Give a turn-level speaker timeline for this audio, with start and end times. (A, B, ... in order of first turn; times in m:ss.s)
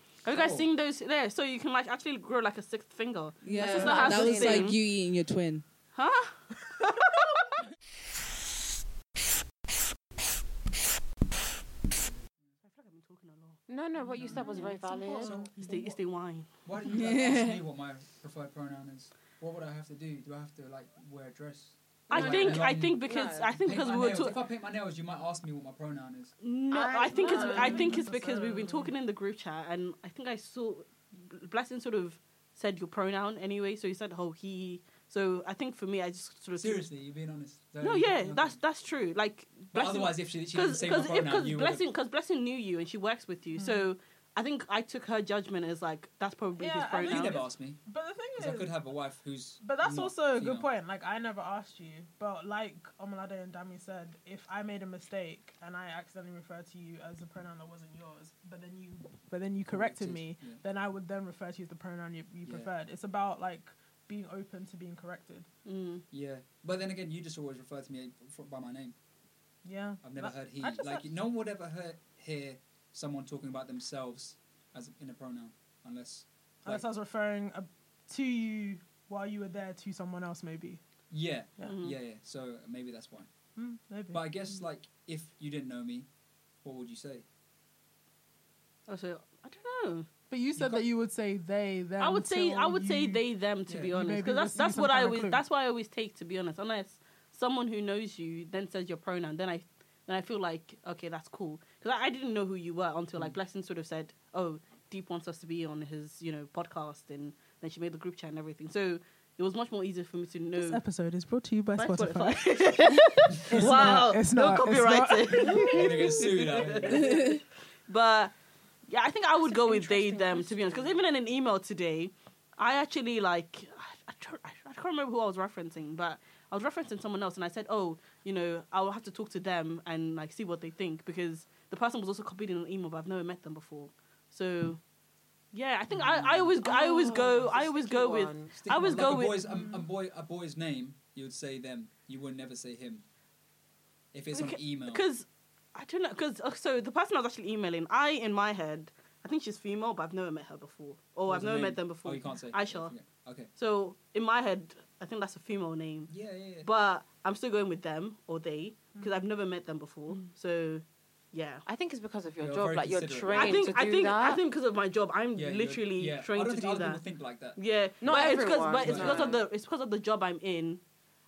0:00.2-0:04.8 A
0:00.3-0:00.7 B
0:03.4-0:05.6 C
0:03.5-0:04.6 D
0:04.1-0:04.5 E
0:05.9-0:06.4 A
0:12.6-0:13.6 A
0:13.7-0:15.4 E
0:14.1-0:16.0 D
0:14.2-0:14.5 B
0:14.4-0:14.8 A
0:15.2-0:15.5 B
0:15.6-0:16.5 A
0:16.6-0:23.0 B
0:16.8-0:17.6 C
0:22.1-0:24.4 A
0:22.1-0:23.5 E
0:23.6-0:26.3 B
0:26.4-0:36.8 A
0:26.7-0:28.6 E
0:27.1-0:28.9 D
0:36.6-0:38.6 B
0:37.8-0:47.4 A
0:39.7-0:41.8 B
0:43.6-0:43.9 D
0:46.6-0:48.8 D
0:46.9-0:47.8 B
0:48.4-0:50.7 B
0:49.6-1:05.5 D
0:59.7-1:00.6 B
1:02.4-1:02.7 B
1:05.6-1:06.0 A
1:06.1-1:08.9 B
1:09.6-1:11.1 D
1:10.0-1:16.9 B
1:16.6-1:20.8 D
1:21.1-1:23.3 B
1:21.6-1:21.9 A
1:23.6-1:24.2 D
1:24.1-1:26.1 B
1:26.6-1:27.2 B
1:28.9-1:30.1 A
1:30.3-1:33.2 D
1:30.6-1:30.8 B
1:32.0-1:50.8 A
1:33.7-1:33.9 B
1:33.8-1:35.4 D
1:50.6-1:56.6 D
1:51.8-1:58.3 A
1:53.3-1:53.6 B
1:55.3-1:57.2 B
1:56.9-1:57.4 C
1:58.9-2:14.8 A
1:59.4-2:00.9 E
2:15.5-2:19.4 A
2:15.9-2:16.5 B
2:16.6-2:19.1 E
2:18.6-2:23.0 B
2:24.1-2:25.0 B
2:24.3-2:32.9 A
2:31.2-2:33.5 B
2:33.6-2:36.1 A
2:36.1-2:36.7 B
2:36.6-2:41.6 A
2:41.6-2:44.4 E
2:42.4-2:43.7 B
2:43.3-2:47.0 A
2:45.3-2:49.4 B
2:47.6-2:50.8 A
2:48.0-2:49.4 E